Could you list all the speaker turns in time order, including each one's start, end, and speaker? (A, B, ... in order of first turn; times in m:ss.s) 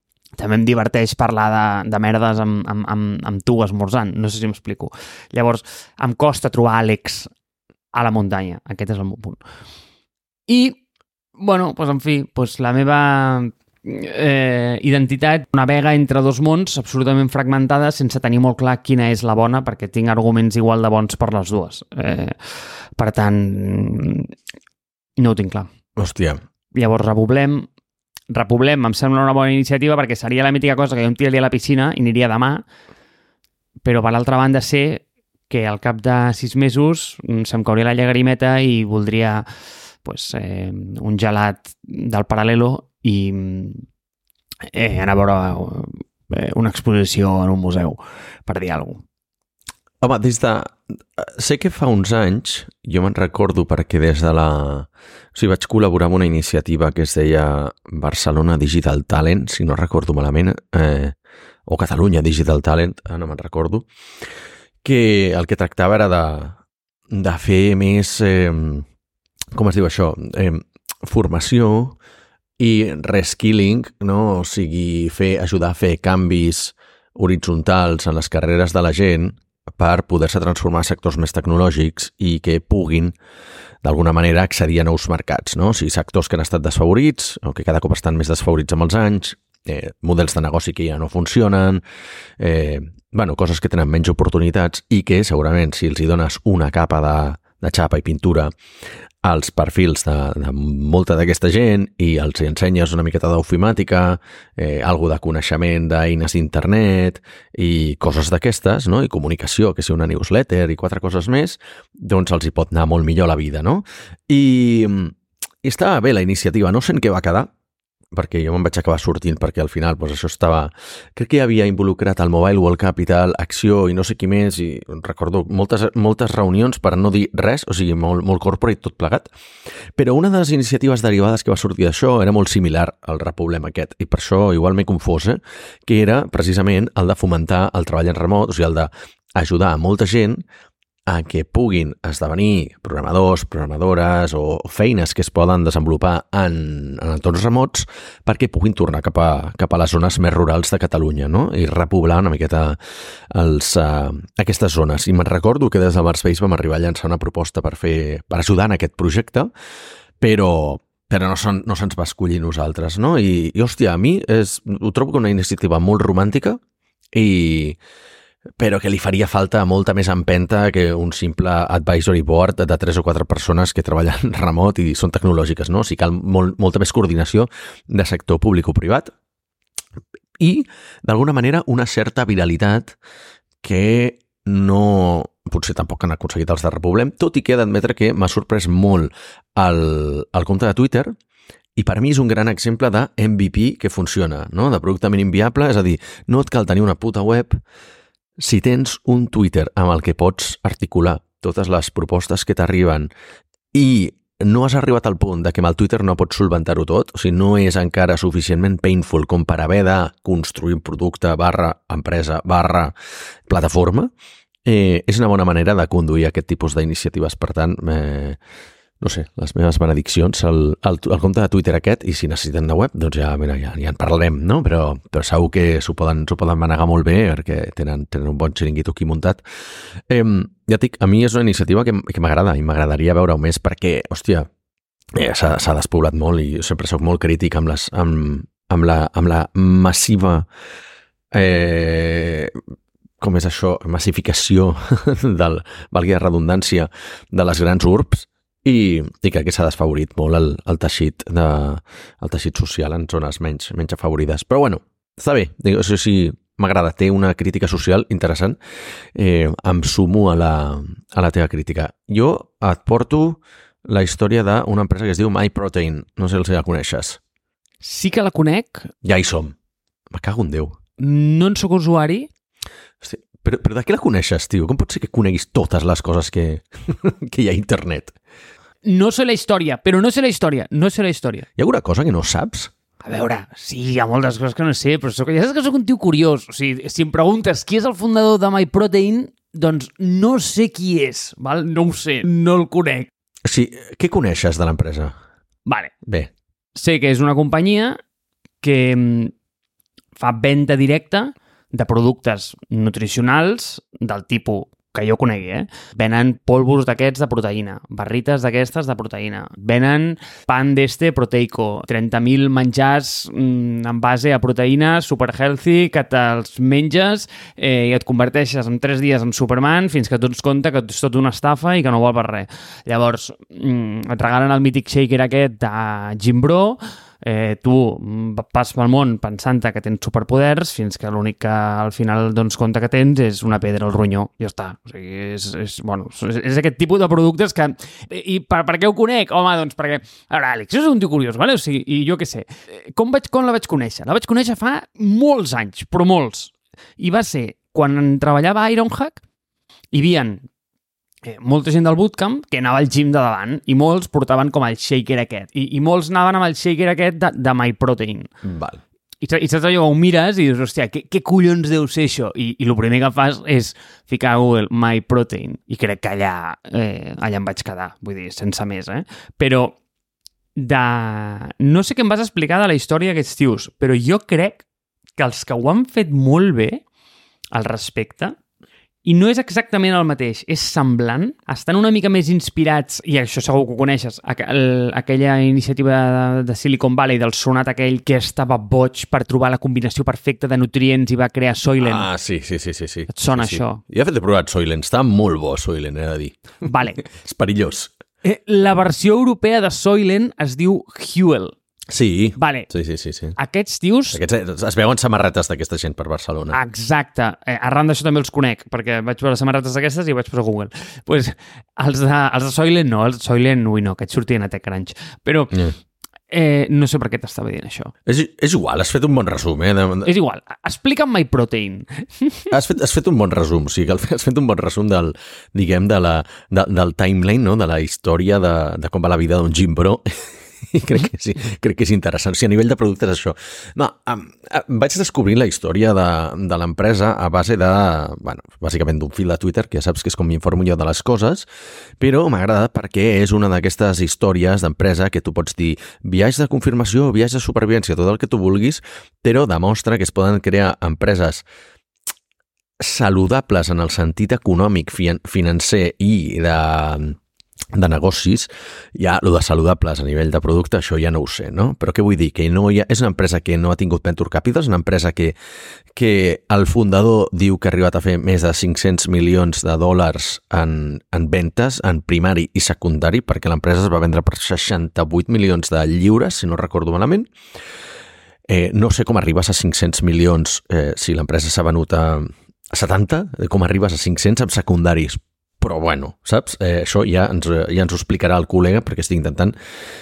0:00.4-0:07.3 A
0:07.9-0:09.4 A
0:10.5-0:10.8 A
0:11.4-0:24.3 A
0:25.2-0:25.7 A
0:26.0-0:26.4 B
0:26.7-0:27.7 A
0:28.3-0:32.6 A
0:33.8-0:39.4 A
0:40.0-0:43.8 A
0:44.7-0:49.0 A
0:50.0-1:01.1 B
1:01.7-1:03.9 B
1:04.8-1:06.6 B
1:07.1-1:08.8 B
1:09.5-1:12.0 B
1:12.6-1:23.1 B
1:23.8-1:31.8 B
1:32.4-1:38.5 B
1:39.2-1:57.5 B
1:58.1-2:09.3 B
2:10.0-2:20.4 B
2:21.1-2:32.8 B
2:33.3-2:39.5 B
2:40.2-2:46.6 B
2:47.1-2:47.8 B
2:48.6-2:59.1 B
3:00.4-3:02.9 B
3:03.6-3:11.1 B
3:11.8-3:17.6 B
3:18.4-3:23.1 B
3:23.7-3:32.9 B
3:33.5-3:34.1 B
3:34.6-3:38.4 B
3:39.0-3:49.4 B
3:50.1-3:54.5 B
3:55.2-4:00.5 B
4:01.3-4:02.6 B
4:03.2-4:18.6 B
4:19.1-4:27.2 B
4:27.8-4:28.9 A
4:29.0-4:29.5 B
4:30.1-4:30.8 B
4:31.0-4:32.3 A
4:33.0-4:38.2 B
4:38.8-4:41.5 A
4:41.6-4:42.7 B
4:43.0-4:53.1 A
4:53.4-4:55.1 B
4:55.6-4:55.9 A
4:56.0-4:56.3 B
4:56.7-4:58.0 A
4:58.6-4:59.3 A
5:00.2-5:49.2 A
5:49.9-5:50.4 A
5:51.2-5:58.3 A
5:58.4-5:58.8 B
5:59.2-6:09.8 A
6:10.6-6:14.6 A
6:15.2-6:16.8 A
6:17.5-6:18.4 A
6:19.0-6:32.1 A
6:31.8-6:37.9 B
6:33.1-6:33.8 A
6:36.6-6:37.0 A
6:38.2-6:41.5 A
6:41.9-6:43.4 B
6:42.4-6:42.7 A
6:43.4-6:44.2 A
6:44.1-6:46.6 B
6:46.5-6:55.6 A
6:56.3-6:57.9 A
6:58.0-7:00.1 B
7:00.0-7:02.5 A
7:02.5-7:21.4 B
7:22.0-7:31.4 B
7:32.8-7:37.2 B
7:37.7-7:45.3 B
7:45.9-7:57.3 B
7:58.5-8:09.5 B